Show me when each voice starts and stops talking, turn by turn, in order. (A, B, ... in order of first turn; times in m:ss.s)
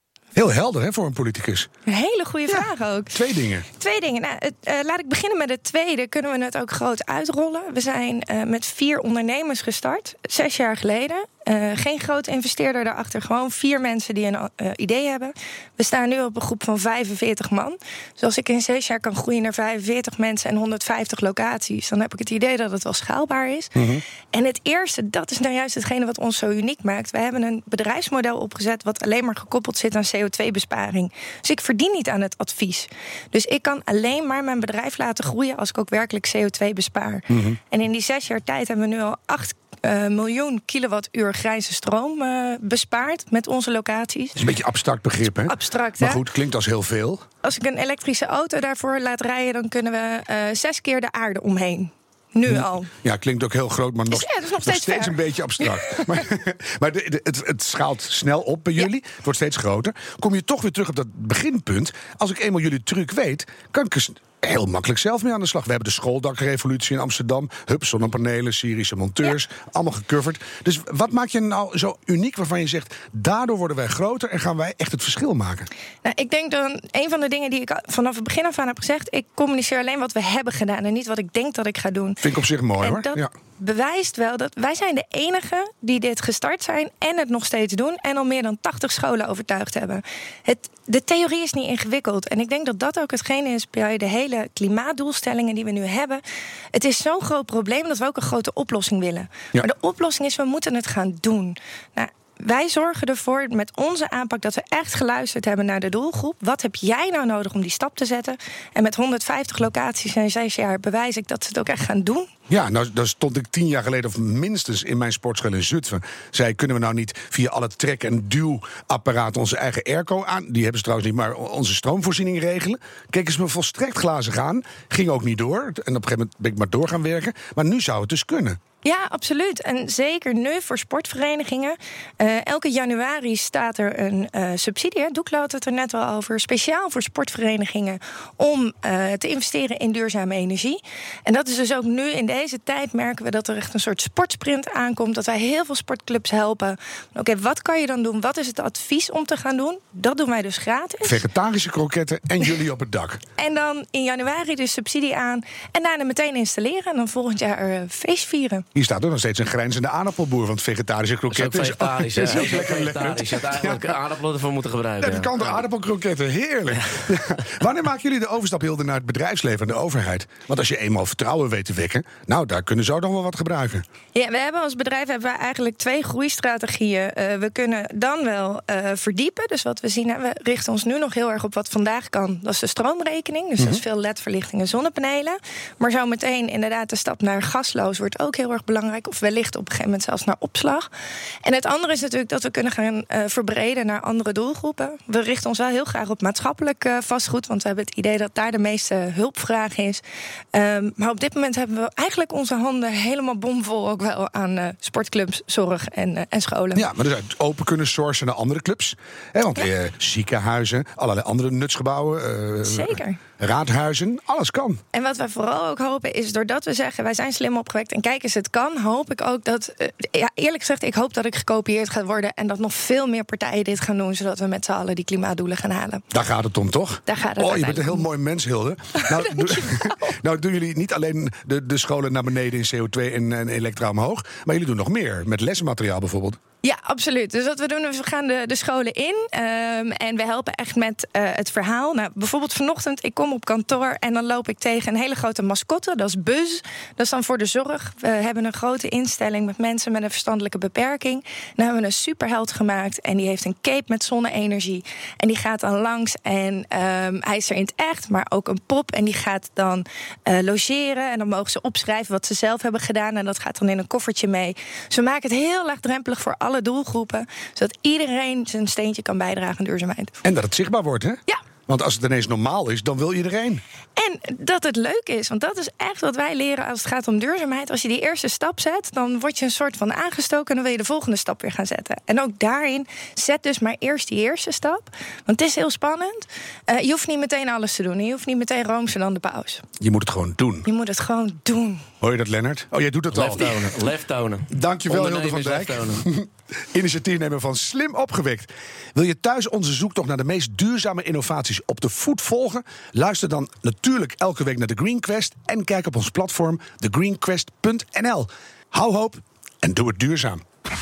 0:00.3-0:01.7 A
0:01.9-0:03.2 B
0:02.5-0:03.6 A
0:03.8-0:23.7 B
0:23.8-0:24.0 A
0:24.3-0:44.4 B
0:37.3-0:37.6 A
0:44.4-0:47.2 A
0:45.4-0:46.2 B
0:47.4-0:52.9 B
0:52.4-1:15.7 A
0:54.1-0:56.2 B
1:16.0-1:22.2 B
1:22.2-1:23.3 A
1:22.8-1:36.2 B
1:36.7-1:52.3 B
1:52.5-2:08.6 A
2:08.8-2:31.2 B
2:31.0-2:33.2 A
2:33.4-2:38.6 B
2:38.7-2:43.9 A
2:41.3-2:45.6 C
2:45.0-2:53.8 A
2:54.1-3:10.9 B
3:11.4-3:20.0 B
3:20.5-3:26.9 B
3:26.7-3:34.8 A
3:32.6-3:33.2 B
3:34.9-3:46.0 B
3:46.1-3:56.4 A
3:47.0-3:48.0 B
3:49.0-3:49.9 B
3:56.6-4:30.1 B
4:30.2-4:33.6 A
4:34.0-4:49.6 B
4:49.8-4:50.7 A
4:50.6-4:51.8 B
4:52.0-4:53.7 A
4:53.1-4:56.0 C
4:54.5-5:10.4 A